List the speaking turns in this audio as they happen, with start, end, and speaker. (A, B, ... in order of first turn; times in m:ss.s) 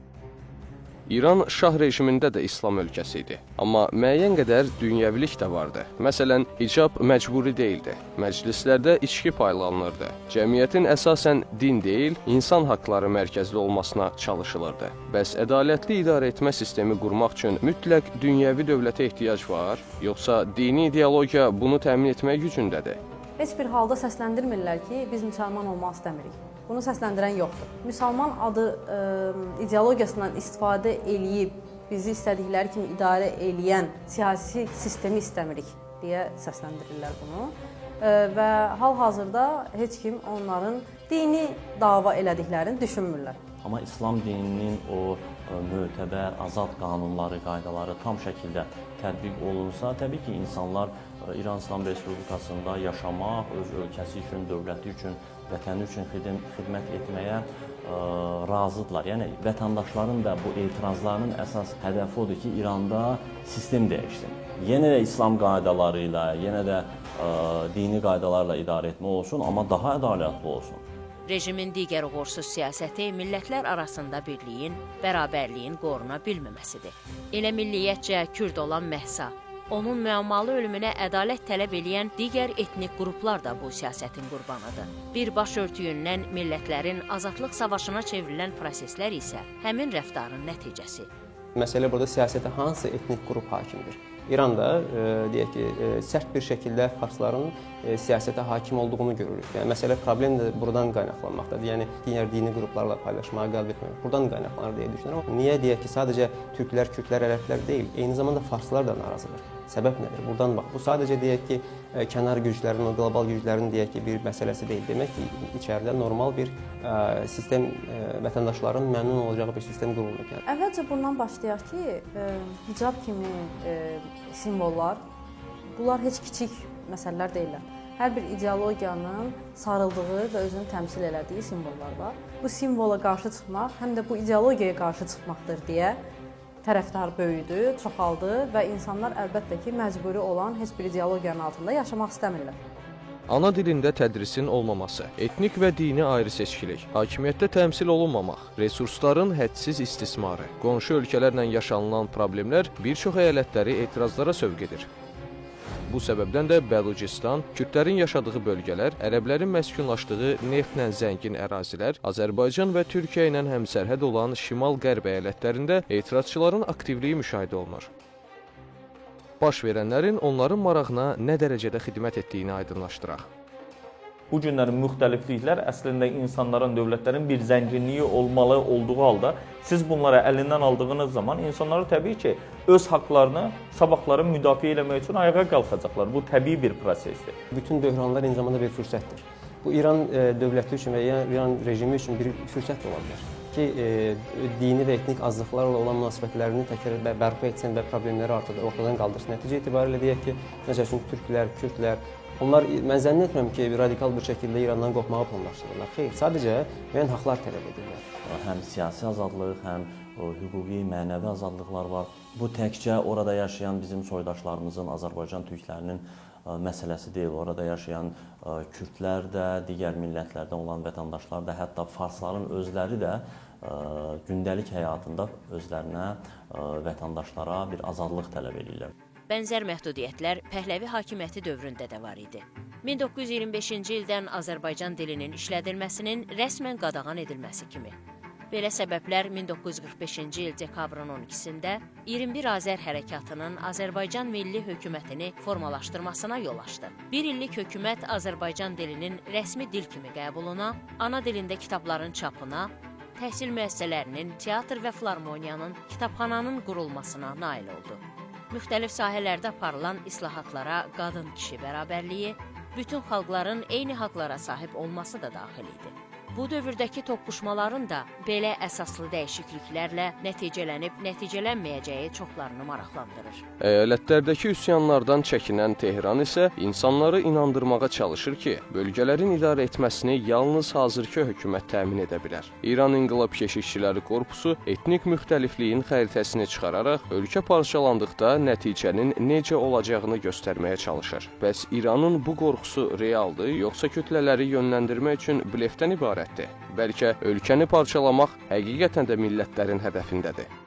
0:01.1-0:23.0 A
0:23.4-0:43.4 B
0:43.6-1:10.8 C
1:11.3-1:31.1 D
1:31.6-2:00.4 E
2:00.5-2:05.0 B
2:05.7-2:16.0 B
2:16.6-2:22.6 B
2:23.3-2:34.9 A
2:35.9-2:47.9 A
2:49.4-2:53.3 A
2:54.3-3:07.4 F
3:07.5-3:28.1 E
3:28.3-3:48.9 C
3:49.3-3:58.0 D
3:58.5-4:33.4 D
4:33.6-5:00.5 A